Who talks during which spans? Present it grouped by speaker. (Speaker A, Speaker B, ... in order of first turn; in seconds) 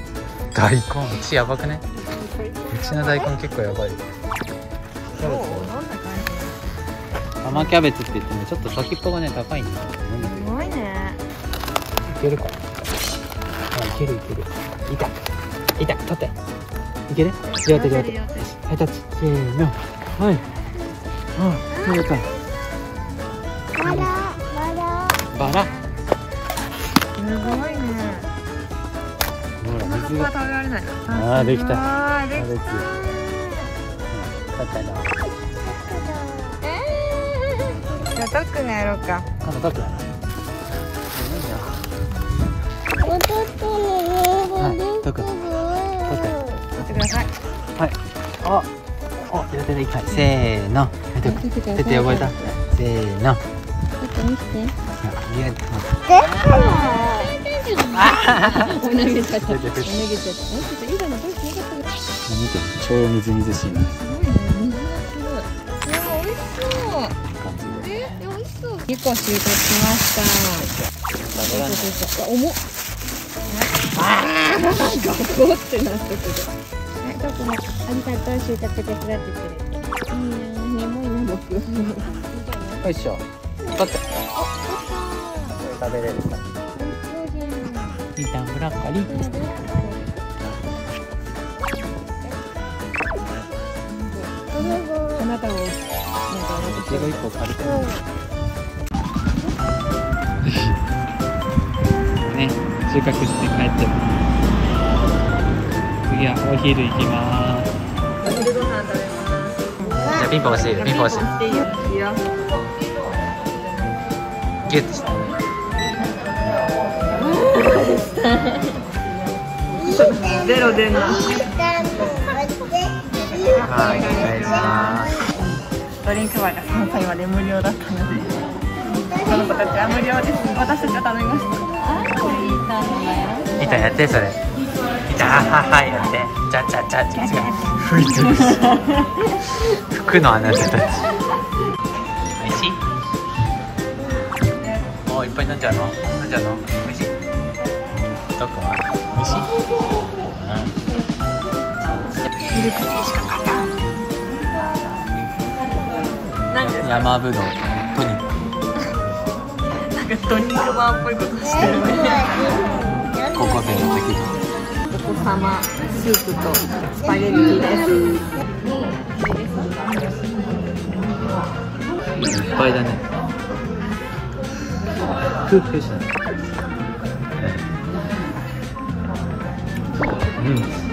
Speaker A: 0.5-1.8, 2.7-4.1, 5.2-5.7, 7.4-10.6, 12.1-12.6, 13.7-15.2, 15.8-16.3, 17.1-20.4, 21.4-22.3, 23.8-24.1, 25.3-25.7, 29.6-30.3, 31.1-32.9, 34.1-35.1, 39.4-40.1, 41.1-41.8, 44.6-45.3, 46.1-46.4, 47.8-48.7, 49.3-53.4, 55.0-56.2, 57.9-58.8, 59.4-60.0, 62.3-64.0, 67.4-67.9, 70.7-72.0, 74.0-74.4, 82.8-84.0, 85.6-86.4, 88.2-89.1, 96.6-98.0, 100.4-100.8, 102.2-104.0, 106.1-107.7, 110.1-111.3, 114.7-115.1, 123.6-125.2, 133.6-134.4, 135.1-138.8, 139.7-141.1, 142.4-142.8, 145.1-147.1, 148.4-149.5, 150.4-150.8, 156.5-158.4, 163.3-164.4, 172.2-173.0, 175.4-176.1, 177.4-177.6, 180.4-180.8
Speaker B: 2.1-3.3, 5.2-6.6, 10.2-11.2, 17.4-18.5, 21.7-22.1, 27.2-28.3, 29.8-33.7, 36.7-39.3, 46.8-47.3, 51.2-52.6, 54.0-54.7, 56.4-61.9, 64.0-67.2, 67.8-70.7, 71.4-72.6, 73.5-82.9, 84.3-85.6, 86.8-88.0, 89.1-90.2, 93.9-97.2, 108.2-112.2, 117.1-118.8, 119.8-121.5, 123.5-125.1, 126.0-128.4, 129.1-133.9, 137.2-139.3, 152.5-153.8, 156.5-157.1, 159.7-162.3, 164.9-168.5, 169.2-169.8
Speaker C: 23.7-25.3, 27.4-28.2, 35.6-36.6, 43.0-46.6, 56.1-57.3, 94.5-95.2, 97.6-97.9, 109.9-110.2, 119.8-125.1, 128.9-129.7, 161.4-163.9, 167.1-168.2